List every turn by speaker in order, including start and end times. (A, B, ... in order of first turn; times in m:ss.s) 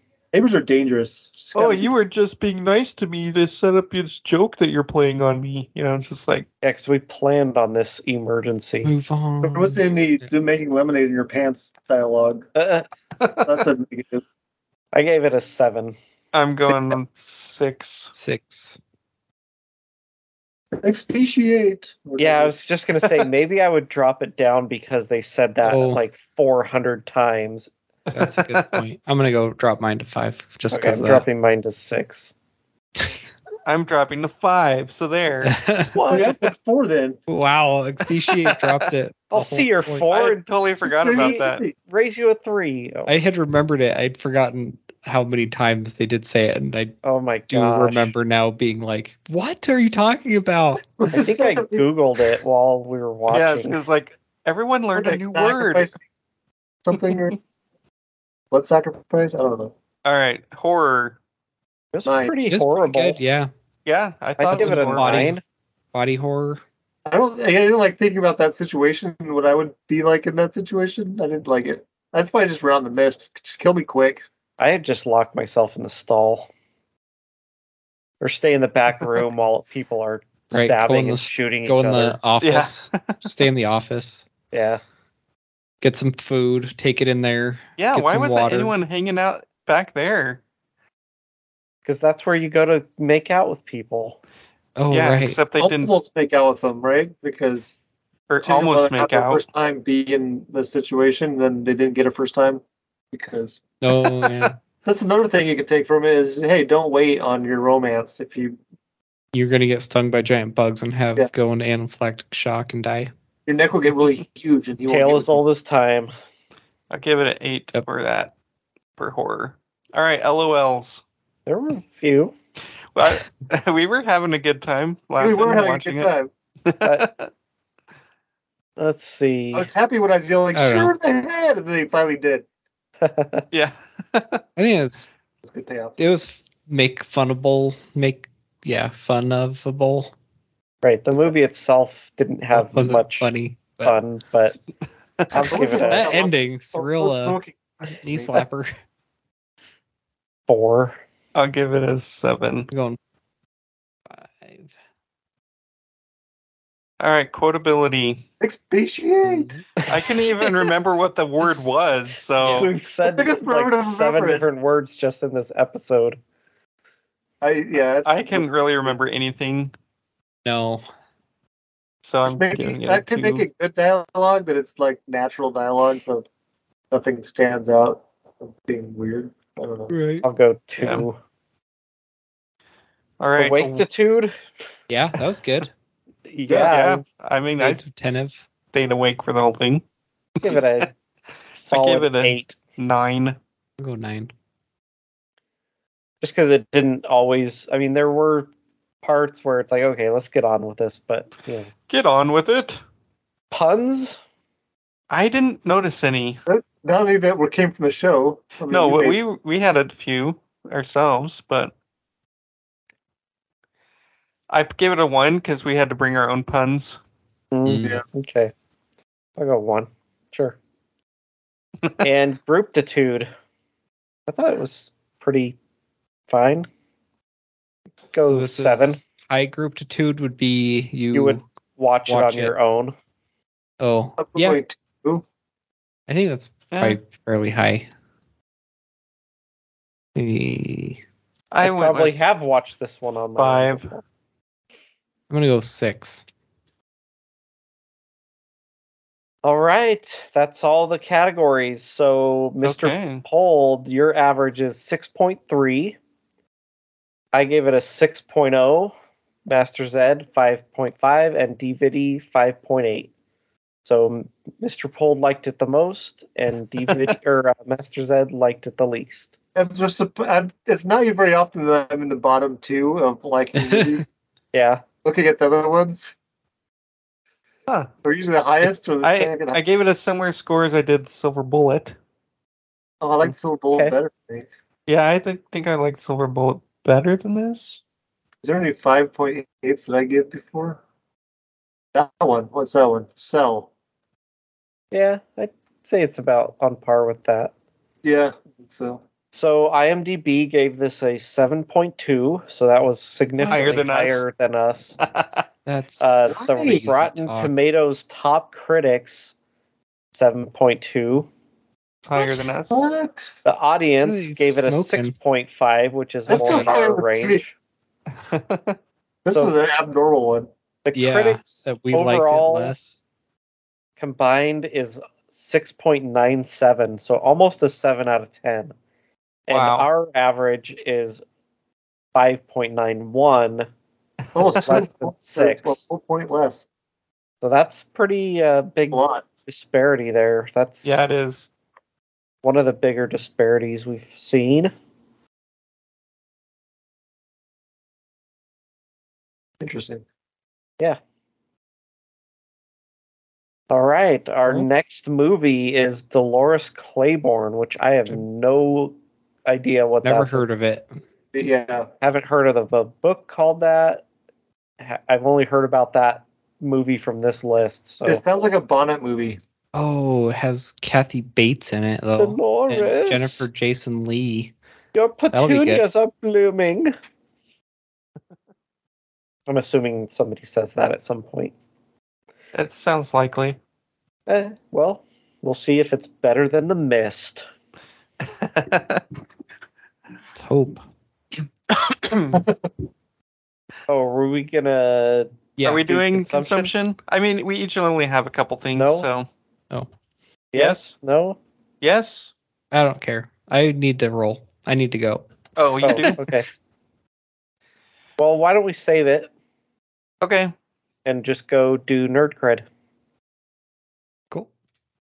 0:00.3-0:01.9 A
0:01.5-0:06.5 B
0:06.6-0:08.9 C
0:08.8-0:09.8 D
0:09.4-0:12.5 A
0:12.6-0:12.9 C
0:13.2-0:13.5 B
0:13.4-0:14.2 A
0:14.9-0:16.0 C
0:16.3-0:18.1 B
0:18.1-0:18.8 D
0:20.8-0:22.6 A
0:22.2-0:27.7 C
0:25.6-0:26.0 D
0:28.1-0:28.8 B
0:28.1-0:31.2 D
0:30.7-0:32.3 C
0:33.6-0:35.5 B
0:35.4-0:36.0 D
0:35.9-0:36.4 C
0:36.1-0:37.2 A
0:37.3-0:40.0 D
0:39.3-0:40.4 C
0:40.1-0:41.6 B
0:41.0-0:41.7 A
0:41.1-0:43.1 C
0:43.1-0:47.0 D
0:47.0-0:48.1 C
0:47.5-0:50.8 D
0:51.0-0:51.8 A
0:51.1-0:53.8 C
0:53.3-0:55.9 B
0:54.9-0:56.0 A
0:56.8-0:57.4 A
0:58.5-0:59.7 A
1:00.0-1:01.2 B
1:01.9-1:03.2 C
1:02.0-1:02.3 A
1:02.5-1:03.5 D
1:03.8-1:05.3 B
1:04.4-1:05.4 C
1:04.5-1:05.4 D
1:05.9-1:06.6 D
1:07.1-1:14.2 A
1:14.6-1:16.5 C
1:18.2-1:22.2 C
1:20.5-1:24.3 D
1:22.4-1:23.4 B
1:24.5-1:24.8 C
1:25.8-1:28.7 D
1:27.8-1:30.4 B
1:31.8-1:34.2 C
1:34.8-1:35.4 D
1:34.9-1:35.9 B
1:35.6-1:37.8 A
1:38.3-1:39.4 B
1:38.4-1:43.6 A
1:43.8-1:44.5 D
1:44.8-1:48.6 A
1:49.3-1:53.1 D
1:53.4-1:55.4 A
1:54.9-1:56.1 C
1:56.9-1:58.3 B
1:59.0-2:01.0 B
2:01.4-2:02.3 C
2:02.9-2:06.1 B
2:05.2-2:06.3 A
2:06.6-2:07.3 B
2:06.8-2:07.1 C
2:08.8-2:09.7 C
2:09.5-2:12.4 A
2:10.5-2:10.9 D
2:13.0-2:13.4 C
2:13.5-2:14.4 B
2:14.6-2:15.1 D
2:15.4-2:16.0 A
2:16.0-2:20.1 D
2:20.8-2:23.3 C
2:22.5-2:23.9 D
2:23.8-2:24.6 C
2:25.3-2:26.2 C
2:25.3-2:28.4 A
2:25.5-2:28.7 D
2:30.5-2:31.0 C
2:31.3-2:32.7 B
2:32.7-2:33.0 D
2:34.1-2:34.7 D
2:37.0-2:38.2 B
2:38.4-2:39.5 A
2:39.2-2:39.6 D
2:39.9-2:42.7 B
2:39.9-2:40.5 C
2:42.4-2:42.7 D
2:42.5-2:46.2 C
2:43.0-2:44.4 A
2:47.4-2:48.5 A
2:48.0-2:49.7 B
2:50.4-2:50.8 D
2:52.0-2:53.4 B
2:52.2-2:56.2 A
2:56.9-2:59.9 A
2:59.9-3:00.2 D
3:00.2-3:01.2 C
3:00.8-3:01.1 B
3:03.2-3:03.9 B
3:03.4-3:04.4 C
3:04.9-3:05.7 D
3:06.3-3:07.0 C
3:06.5-3:08.2 B
3:07.6-3:08.4 D
3:08.7-3:09.8 B
3:10.4-3:10.9 C
3:11.6-3:12.6 C
3:11.6-3:13.4 B
3:13.8-3:14.3 D
3:16.2-3:18.5 C
3:19.0-3:21.7 C
3:21.9-3:22.8 B
3:23.5-3:24.2 C
3:25.1-3:26.4 B
3:26.5-3:29.2 A
3:28.7-3:31.7 B
3:34.5-3:37.0 B
3:37.5-3:38.5 C
3:37.6-3:38.0 D
3:39.4-3:40.6 C
3:42.0-3:43.3 C
3:44.3-3:45.6 C
3:46.3-3:46.7 C
3:48.1-3:49.0 C
3:48.2-3:51.4 D
3:51.1-3:52.9 C
3:52.1-3:52.5 D
3:53.8-3:54.6 D
3:54.2-3:55.2 A
3:56.1-3:57.9 D
3:56.7-3:57.0 B
4:00.2-4:01.0 D
4:01.5-4:02.3 B
4:01.6-4:04.0 C
4:03.3-4:03.9 B
4:05.3-4:06.2 D
4:09.4-4:16.0 C
4:12.6-4:13.2 B
4:17.3-4:18.9 C
4:19.4-4:23.1 C
4:23.8-4:29.4 C
4:29.6-4:34.1 A
4:33.6-4:33.9 D
4:34.5-4:34.8 C
4:35.0-4:36.1 A
4:38.0-4:39.6 A
4:38.6-4:42.0 B
4:43.0-4:44.5 A
4:44.9-4:47.8 B
4:48.4-4:50.8 A
4:51.9-4:53.7 A
4:54.9-4:57.5 C
4:58.0-4:59.0 A
4:59.3-5:05.0 C
5:03.4-5:04.2 B
5:05.1-5:05.4 B
5:05.6-5:07.5 D
5:06.0-5:09.3 C
5:06.3-5:06.8 A
5:10.1-5:11.3 C
5:12.0-5:12.8 B
5:12.2-5:13.3 A
5:13.4-5:17.5 C
5:14.0-5:15.1 D
5:16.3-5:17.4 A
5:16.3-5:16.7 D
5:18.2-5:18.8 B
5:19.2-5:20.5 A
5:20.8-5:22.7 C
5:20.9-5:23.0 D
5:24.0-5:28.7 C
5:29.5-5:31.2 C
5:29.5-5:29.9 B
5:32.1-5:33.7 C
5:34.3-5:36.6 A
5:34.5-5:35.8 C
5:37.4-5:41.0 C
5:38.9-5:39.2 A
5:40.8-5:41.5 B
5:42.4-5:44.7 C
5:49.6-5:50.0 A
5:53.7-6:00.4 C
6:00.0-6:01.0 D
6:01.3-6:01.9 A
6:02.0-6:04.0 C
6:04.8-6:08.2 C
6:08.0-6:09.4 A
6:09.7-6:14.5 D
6:12.2-6:13.5 C
6:14.9-6:16.9 C
6:15.3-6:15.8 D
6:19.5-6:21.5 C
6:22.5-6:23.6 B
6:24.2-6:27.4 C
6:28.2-6:29.0 B
6:30.4-6:30.8 D
6:33.9-6:36.7 C
6:35.6-6:35.8 D
6:35.6-6:39.3 B
6:38.7-6:39.1 C
6:40.5-6:41.4 C
6:40.5-6:40.9 B
6:41.8-6:42.3 B
6:42.7-6:45.2 D
6:45.6-6:46.2 B
6:45.8-6:46.5 C
6:48.2-6:49.3 C
6:50.2-6:50.5 B
6:51.0-6:52.6 C